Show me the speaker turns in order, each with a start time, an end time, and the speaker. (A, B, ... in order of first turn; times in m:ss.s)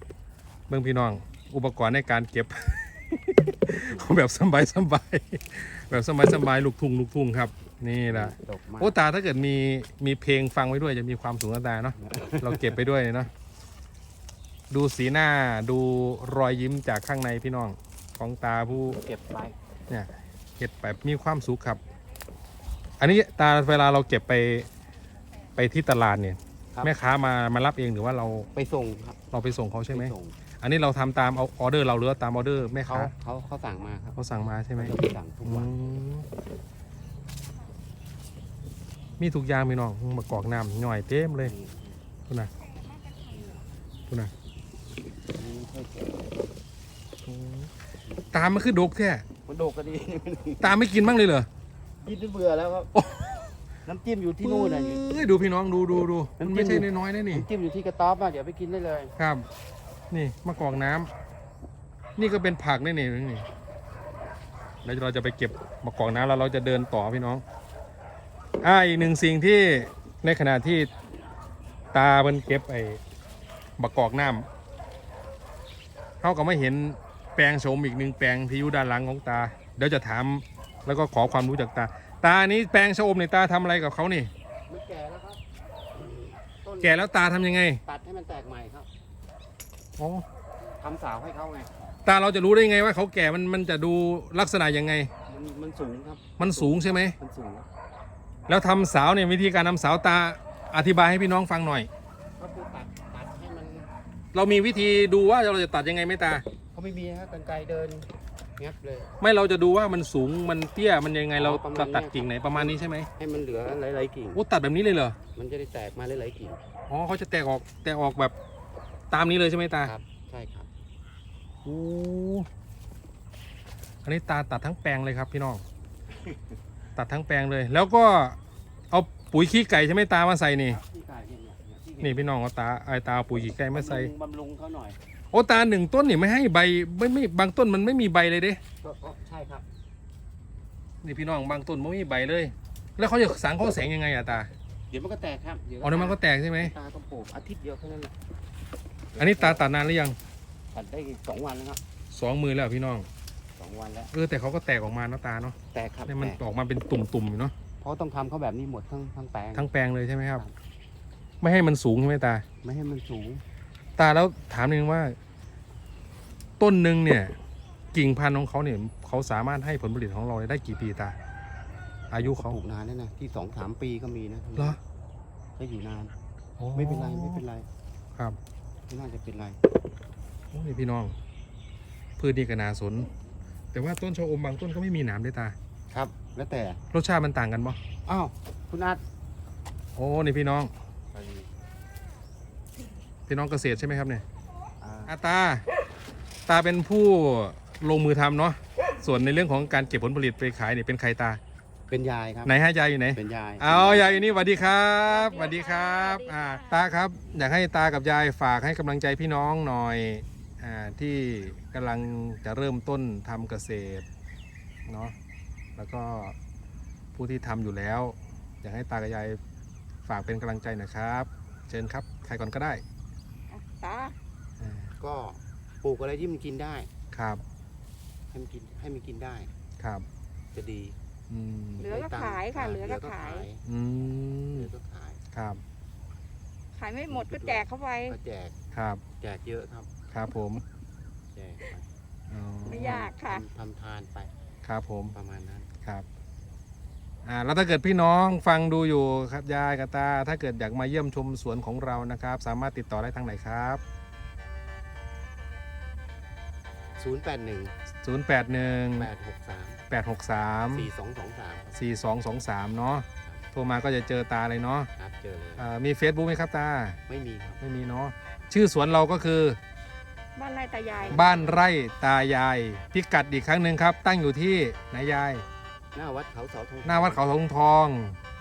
0:00.7-0:13.3 A
0:03.8-0:04.1 B
0:08.1-0:09.0 B
0:12.0-0:12.8 B
0:14.7-0:19.0 A
0:18.7-0:19.6 B
0:19.9-0:21.8 A
0:23.0-0:24.7 A
0:25.6-0:28.5 A
0:28.5-0:29.2 B
0:29.3-0:33.1 A
0:29.9-0:30.4 B
0:32.8-0:34.2 B
0:34.2-0:36.3 A
0:34.8-0:36.0 B
0:39.2-0:41.5 A
0:41.4-0:42.0 B
0:43.0-0:43.5 C
0:45.3-0:46.3 B
0:47.3-0:47.7 A
0:48.1-0:48.4 B
0:48.3-0:49.2 A
0:49.4-0:50.7 B
0:50.6-0:51.5 A
0:52.0-0:52.9 B
0:52.9-0:53.5 A
0:53.8-0:55.1 B
0:54.4-0:57.5 A
0:56.4-0:59.1 B
0:59.2-0:59.5 A
1:00.1-1:01.1 A
1:02.2-1:03.5 A
1:04.8-1:07.4 A
1:08.6-1:10.9 A
1:11.9-1:13.0 A
1:13.8-1:14.5 A
1:16.2-1:24.3 A
1:24.7-1:27.2 B
1:26.8-1:27.8 A
1:27.8-1:28.9 B
1:30.0-1:30.2 A
1:30.8-1:31.9 B
1:32.0-1:35.1 A
1:35.3-1:37.6 B
1:36.4-1:37.2 A
1:38.5-1:41.9 A
1:42.4-1:43.9 B
1:44.3-1:46.4 A
1:46.7-1:49.1 B
1:49.2-1:53.1 A
1:51.3-1:54.4 B
1:54.3-1:55.2 A
1:55.3-1:56.6 B
1:56.9-1:58.3 A
1:59.1-1:59.9 A
1:59.8-2:00.7 B
2:01.6-2:02.5 A
2:04.0-2:05.6 A
2:06.1-2:06.6 B
2:07.0-2:08.4 A
2:08.9-2:10.8 A
2:10.7-2:12.3 B
2:12.0-2:14.1 A
2:13.3-2:15.0 B
2:15.3-2:18.6 A
2:18.8-2:19.6 B
2:21.0-2:24.5 A
2:24.9-2:28.1 B
2:25.8-2:26.7 A
2:29.1-2:29.7 B
2:29.2-2:30.2 A
2:30.7-2:31.8 B
2:32.1-2:33.1 A
2:33.6-2:34.1 B
2:34.1-2:35.6 A
2:35.7-2:36.4 B
2:36.1-2:37.5 A
2:37.8-2:39.7 B
2:39.6-2:40.4 A
2:40.2-2:40.5 B
2:41.4-2:42.4 A
2:42.6-2:43.4 B
2:44.0-2:45.2 A
2:46.6-2:47.4 A
2:47.9-2:51.2 A
2:52.1-2:52.6 A
2:52.1-2:54.8 B
2:55.6-2:56.1 B
2:56.6-2:57.4 A
2:56.7-2:57.7 B
2:58.9-2:59.6 B
3:00.5-3:01.1 A
3:02.2-3:03.1 A
3:03.7-3:05.5 A
3:05.9-3:06.8 B
3:06.9-3:07.8 A
3:08.0-3:09.0 B
3:10.0-3:10.7 A
3:11.1-3:11.5 B
3:13.3-3:14.2 A
3:14.8-3:15.1 B
3:15.1-3:15.6 A
3:16.5-3:21.4 A
3:21.9-3:22.5 B
3:22.4-3:34.0 A
3:23.1-3:24.2 B
3:25.0-3:26.8 C
3:34.9-3:35.1 A
3:35.8-3:36.4 A
3:37.1-3:39.4 A
3:40.0-3:42.8 A
3:43.5-3:44.1 C
3:44.6-3:44.9 A
3:45.0-3:46.9 B
3:47.1-3:47.4 A
3:48.3-3:49.5 B
3:49.8-3:50.0 A
3:50.5-3:51.0 B
3:51.3-3:51.9 A
3:51.8-3:53.6 B
3:51.8-3:53.5 C
3:53.6-3:54.7 A
3:54.5-3:55.2 B
3:55.3-3:55.6 A
3:56.7-3:58.2 C
3:57.1-3:58.6 B
3:58.7-3:59.0 A
3:59.2-3:59.9 B
4:00.1-4:00.6 A
4:01.3-4:01.9 B
4:02.3-4:03.1 A
4:02.6-4:04.3 B
4:02.7-4:03.4 C
4:04.6-4:05.1 A
4:05.1-4:05.7 B
4:07.2-4:13.8 A
4:17.0-4:17.8 B
4:17.9-4:19.1 A
4:18.9-4:19.8 B
4:19.9-4:20.9 A
4:20.7-4:21.7 B
4:21.7-4:24.9 A
4:24.9-4:25.6 B
4:25.6-4:27.0 A
4:27.1-4:27.6 B
4:27.6-4:29.6 A
4:30.4-4:31.3 C
4:30.9-4:31.6 B
4:31.1-4:35.4 A
4:35.9-4:37.2 B
4:36.8-4:38.2 A